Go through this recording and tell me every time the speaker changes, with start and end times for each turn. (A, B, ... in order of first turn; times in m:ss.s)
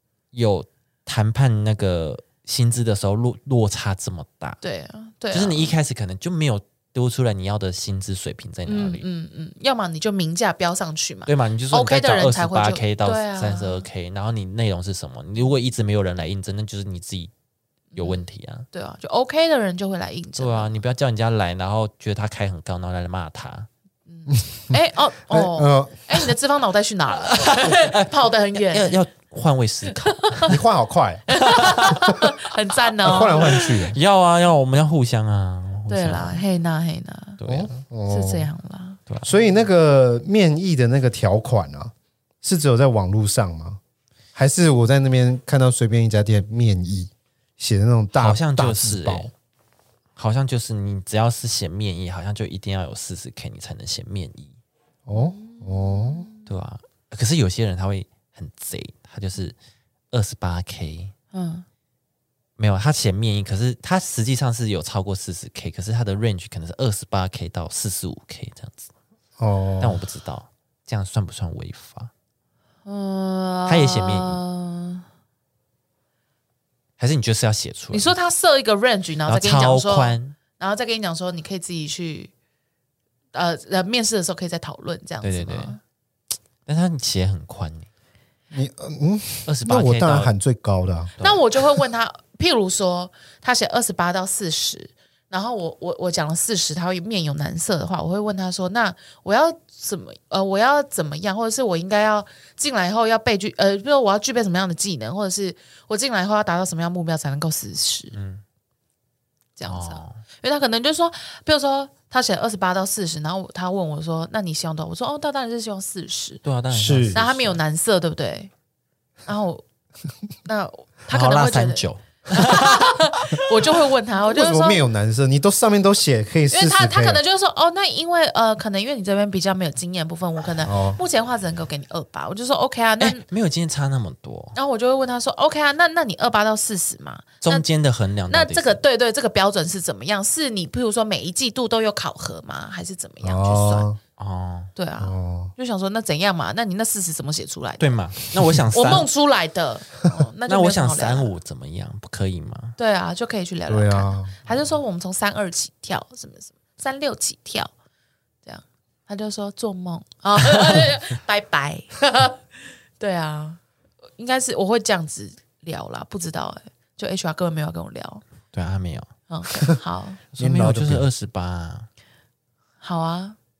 0:00.3-0:04.6 A
0:04.6-0:05.8 B
0:05.3-0:09.0 A
0:08.6-0:13.8 B
0:11.2-0:17.3 A
0:17.9-0:20.7 B
0:17.9-0:18.7 A
0:20.4-0:23.7 A
0:24.1-0:29.0 B
0:24.3-0:26.3 C
0:27.3-0:30.5 A
0:29.9-0:30.6 B
0:30.5-0:31.4 C
0:31.3-0:33.8 B
0:31.3-0:32.1 A
0:33.0-0:34.0 C
0:33.1-0:36.4 A
0:35.9-0:37.4 B
0:37.4-0:37.7 A
0:37.5-0:38.5 C
0:38.1-0:39.0 B
0:39.2-0:43.8 C
0:44.3-0:49.3 C
0:48.1-0:49.3 A
0:50.2-0:54.5 A
0:55.0-0:56.3 C
0:55.1-0:56.5 B
0:56.4-0:59.6 A
1:00.1-1:01.1 A
1:01.3-1:01.6 B
1:02.6-1:08.9 A
1:09.4-1:10.0 C
1:09.8-1:12.1 A
1:12.8-1:15.0 B
1:13.6-1:14.4 A
1:17.0-1:18.2 A
1:17.9-1:22.3 B
1:19.3-1:20.4 A
1:23.3-1:25.8 B
1:25.2-1:25.8 A
1:26.6-1:27.9 A
1:28.5-1:31.1 C
1:29.4-1:30.3 A
1:31.2-1:48.2 B
1:48.1-1:48.4 A
1:49.6-1:56.4 B
1:49.6-1:50.2 A
1:56.4-1:57.6 A
1:56.7-1:57.2 C
1:57.1-1:58.5 B
1:59.2-1:59.6 B
2:00.4-2:04.8 B
2:01.1-2:03.7 A
2:04.2-2:07.2 C
2:06.5-2:13.2 B
2:10.6-2:11.0 C
2:13.0-2:14.6 A
2:14.5-2:17.6 B
2:17.4-2:18.8 A
2:18.3-2:23.9 B
2:23.2-2:24.0 C
2:24.2-2:24.7 A
2:24.8-2:27.9 B
2:25.0-2:25.5 C
2:27.8-2:29.1 A
2:28.7-2:31.3 B
2:30.5-2:32.8 A
2:32.8-2:37.7 B
2:33.7-2:34.4 C
2:38.4-2:42.4 B
2:43.0-2:43.6 B
2:44.2-2:48.2 B
2:48.5-2:49.1 A
2:49.3-2:50.2 B
2:50.3-2:51.9 A
2:50.4-2:51.0 C
2:52.8-2:53.4 B